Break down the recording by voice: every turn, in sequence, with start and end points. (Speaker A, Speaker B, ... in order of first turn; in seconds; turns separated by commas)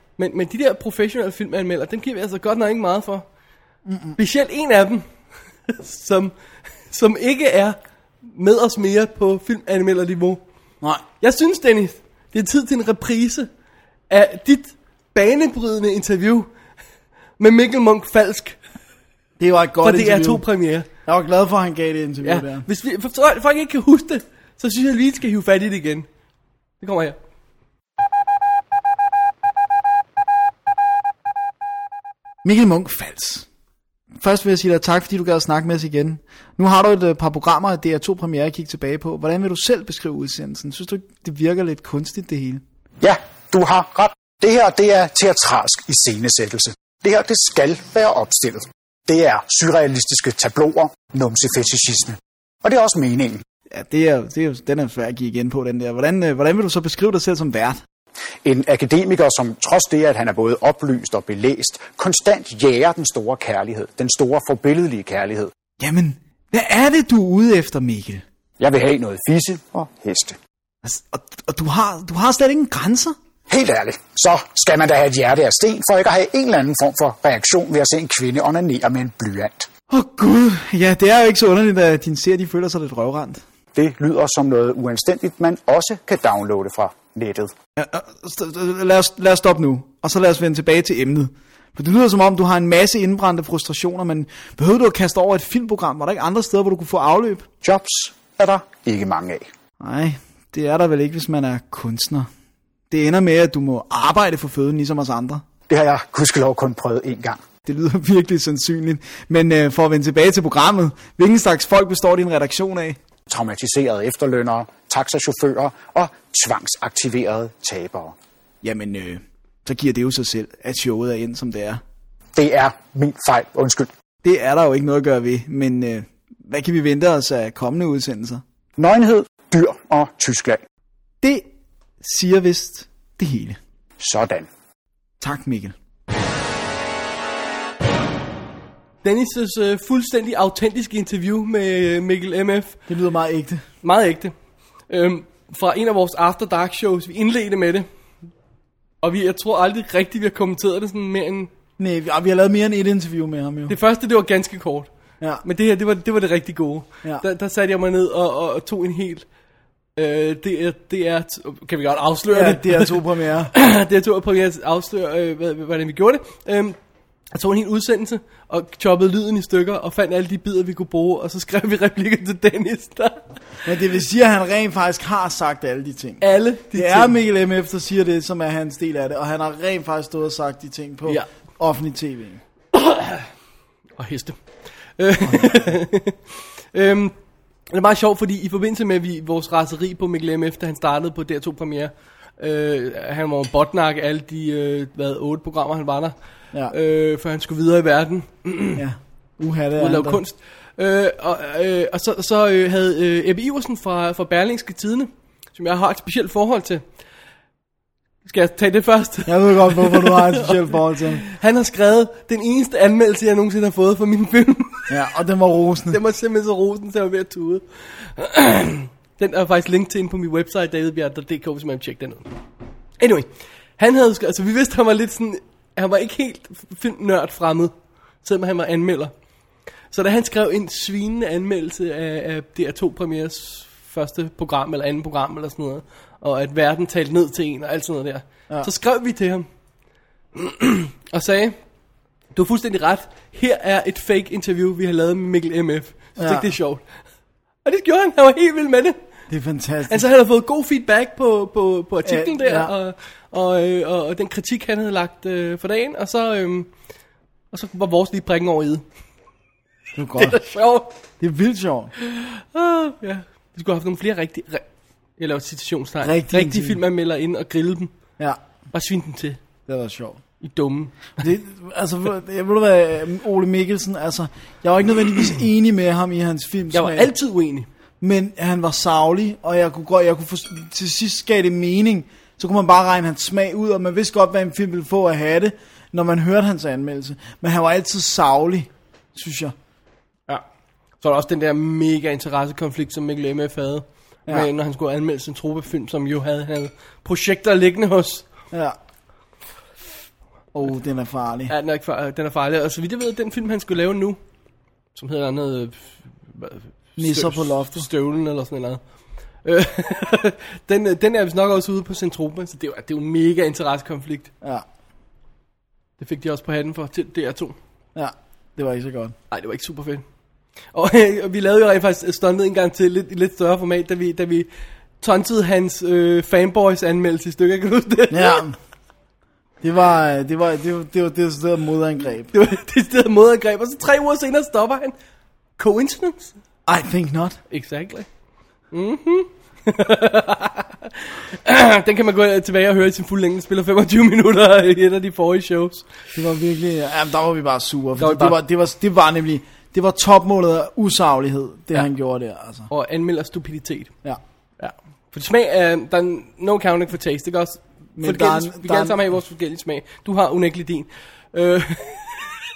Speaker A: 0.2-3.2, Speaker B: 3.9-4.2, Speaker A: 4.2-5.0, Speaker A: 5.7-6.3, Speaker A: 6.9-10.4, Speaker A: 11.2-13.5, Speaker A: 14.1-16.5, Speaker A: 17.4-18.6, Speaker B: 19.4-20.4, Speaker A: 19.8-20.9, Speaker B: 21.1-22.6, Speaker A: 22.2-26.1, Speaker A: 26.8-27.2, Speaker B: 32.4-33.5, Speaker B: 34.2-42.6, Speaker C: 43.0-53.4, Speaker B: 53.7-57.8, Speaker C: 58.4-65.5, Speaker B: 65.8-68.2, Speaker C: 68.6-70.4, Speaker B: 70.8-73.2, Speaker C: 73.5-79.7, Speaker B: 79.9-83.4, Speaker C: 83.8-87.5, Speaker B: 87.8-97.5, Speaker C: 97.6-99.5, Speaker B: 99.8-102.3, Speaker B: 102.9-105.4, Speaker C: 105.7-107.4, Speaker B: 107.7-113.0, Speaker C: 113.3-118.2, Speaker B: 118.6-121.8, Speaker C: 122.3-123.9, Speaker B: 124.2-128.4, Speaker C: 128.8-130.6, Speaker B: 131.2-131.5, Speaker B: 132.0-133.6, Speaker C: 134.0-134.5, Speaker B: 135.2-135.7, Speaker A: 139.0-142.8, Speaker B: 142.9-143.6, Speaker A: 143.8-144.3, Speaker A: 144.9-147.9, Speaker A: 149.0-151.5, Speaker B: 151.8-153.8, Speaker A: 153.7-154.9, Speaker A: 155.4-159.2, Speaker A: 160.0-163.0, Speaker B: 162.3-163.5, Speaker A: 163.5-166.8, Speaker A: 167.3-173.2, Speaker B: 173.7-176.2, Speaker A: 176.2-177.1, Speaker B: 176.7-182.4, Speaker A: 182.8-183.2, Speaker A: 184.0-184.4, Speaker A: 185.0-187.1, Speaker B: 185.3-185.7, Speaker A: 187.7-196.1, Speaker A: 196.7-198.8, Speaker B: 198.8-200.2, Speaker A: 199.8-206.8, Speaker A: 208.2-214.9, Speaker B: 209.3-211.2, Speaker B: 214.9-216.0, Speaker A: 215.9-222.3, Speaker A: 223.0-223.3, Speaker A: 223.8-229.1, Speaker A: 229.9-239.5, Speaker A: 240.3-241.6, Speaker A: 242.3-246.8, Speaker B: 246.2-246.5, Speaker A: 247.7-249.0, Speaker B: 249.3-250.0, Speaker A: 249.9-256.7, Speaker B: 252.1-252.7, Speaker A: 257.5-258.8, Speaker B: 260.0-260.4, Speaker A: 260.2-260.9, Speaker B: 261.2-261.9, Speaker A: 262.0-264.6, Speaker A: 265.2-267.9, Speaker B: 266.0-266.8, Speaker A: 268.7-269.4, Speaker B: 269.7-270.2, Speaker A: 270.4-271.3, Speaker B: 271.2-277.1, Speaker A: 276.7-277.7, Speaker B: 278.0-289.5, Speaker A: 291.0-298.2, Speaker B: 300.5-301.5, Speaker A: 301.5-304.2, Speaker A: 304.9-308.8, Speaker B: 307.0-307.9, Speaker A: 309.4-314.3, Speaker A: 316.0-317.6, Speaker B: 317.9-319.1, Speaker A: 319.3-320.0, Speaker A: 320.7-324.5, Speaker A: 325.0-328.4, Speaker B: 328.1-328.6, Speaker B: 329.6-332.3, Speaker A: 332.3-334.9, Speaker A: 335.6-336.3, Speaker B: 336.7-337.4, Speaker A: 337.5-338.1, Speaker A: 338.7-345.9, Speaker B: 346.1-352.7, Speaker A: 348.0-348.4, Speaker A: 352.7-353.9, Speaker A: 354.6-362.3, Speaker B: 358.0-358.9